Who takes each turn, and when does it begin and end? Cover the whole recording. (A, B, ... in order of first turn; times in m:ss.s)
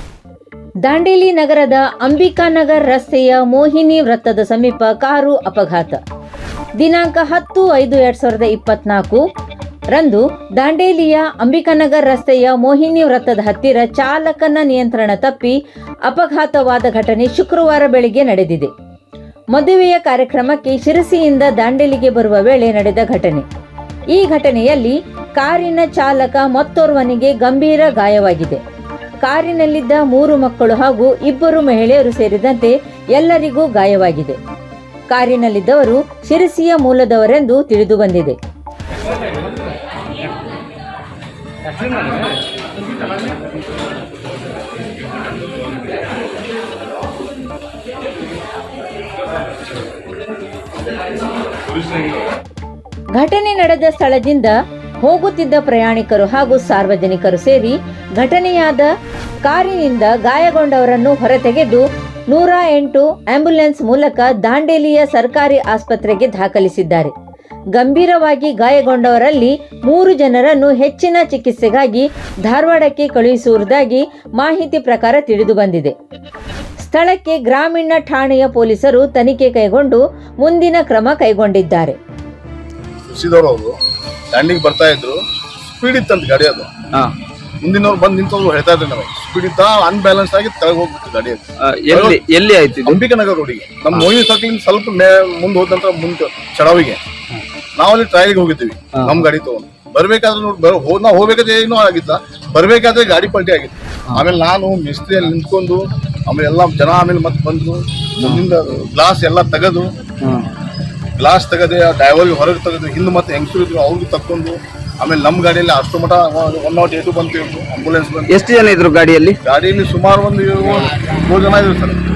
0:00.8-0:06.0 A
0:06.8-0:09.2 A
0:09.9-0:15.6 A
0:16.1-0:18.7 A
0:19.5-0:23.4 A
0:24.1-0:28.6 A
0:29.2-0:34.4 A
0:35.1-0:38.4 A
0:53.2-0:58.9 A
0:59.4-1:07.1 A
1:07.7-1:15.9 A
1:16.8-1:22.0 A
1:23.1-1:23.8 B
1:24.3-1:26.7 B
1:27.6-1:32.2 B
1:31.6-1:33.0 C
1:32.8-1:37.0 B
1:37.8-1:49.9 B
1:38.9-1:39.2 C
1:51.2-1:58.8 B
1:58.3-1:59.4 C
1:59.4-2:02.0 B